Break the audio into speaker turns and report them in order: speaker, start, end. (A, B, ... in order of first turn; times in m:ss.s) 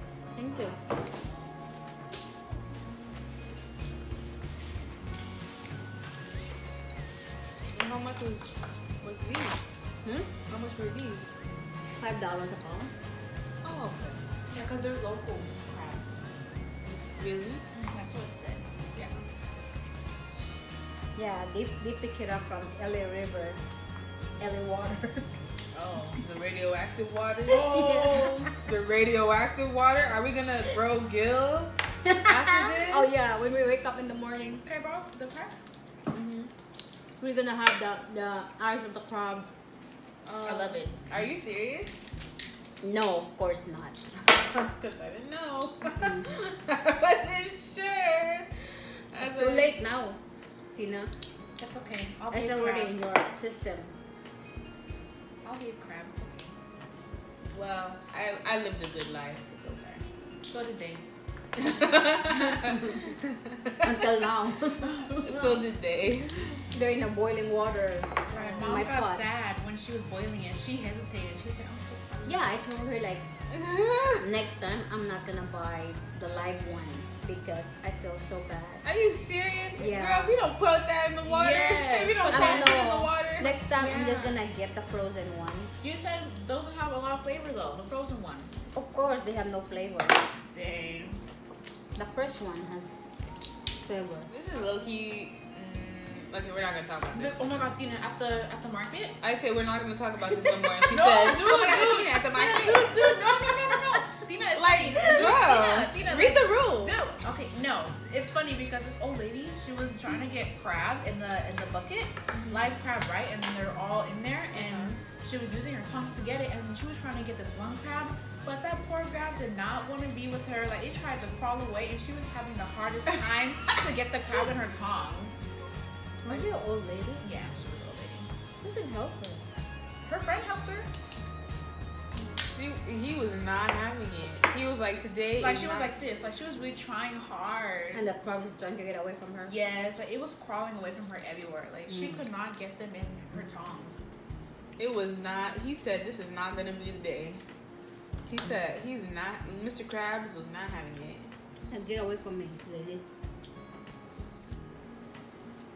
0:00.4-0:00.8 A
0:07.7-0:09.6 B
0:10.0-0:10.3 A
0:10.5-0:11.3 B
0:12.0-0:12.9 A
0:13.6-0:14.2 B
0:14.5-0:16.2 C
0:16.8-0:17.6 B
0:17.8-0:19.2 C
0:21.1-0:23.6 A
0:24.4-0:25.3 A
0:25.9-0:33.1 B
0:27.5-0:28.5 A
0:27.7-0:28.5 C
0:32.0-0:34.6 A
0:34.6-0:35.6 C
0:36.1-0:36.5 B
0:37.2-0:39.5 A
0:40.2-0:42.0 B
0:40.4-0:41.0 C
0:42.8-0:44.0 A
0:44.5-0:49.8 B
0:49.2-0:50.2 A
0:50.7-0:51.1 A
0:51.6-0:52.9 C
0:52.3-0:53.9 A
0:55.4-0:56.5 C
0:57.5-1:00.0 B
1:00.5-1:01.1 C
1:01.6-1:04.1 B
1:02.5-1:03.0 A
1:03.8-1:05.4 A
1:04.8-1:05.4 C
1:05.2-1:06.6 B
1:06.7-1:09.2 A
1:08.3-1:12.6 C
1:12.2-1:13.3 A
1:13.5-1:14.2 B
1:14.2-1:18.8 A
1:18.8-1:23.5 B
1:19.8-1:20.3 A
1:21.2-1:22.8 C
1:22.3-1:25.7 A
1:23.8-1:24.4 C
1:25.8-1:28.5 C
1:28.7-1:30.2 A
1:30.5-1:31.2 C
1:32.0-1:32.9 A
1:33.7-1:34.3 A
1:34.3-1:37.4 B
1:37.1-1:39.2 C
1:39.2-1:43.8 B
1:40.8-2:05.5 C
1:44.6-1:47.0 B
1:54.5-1:55.0 B
2:06.2-2:07.2 A
2:07.2-2:08.3 C
2:08.6-2:09.4 A
2:10.0-2:10.9 C
2:12.2-2:15.9 B
2:15.4-2:18.0 C
2:17.9-2:19.5 A
2:19.4-2:24.0 C
2:21.9-2:22.2 A
2:24.8-2:27.4 B
2:28.3-2:31.2 B
2:31.7-2:33.0 A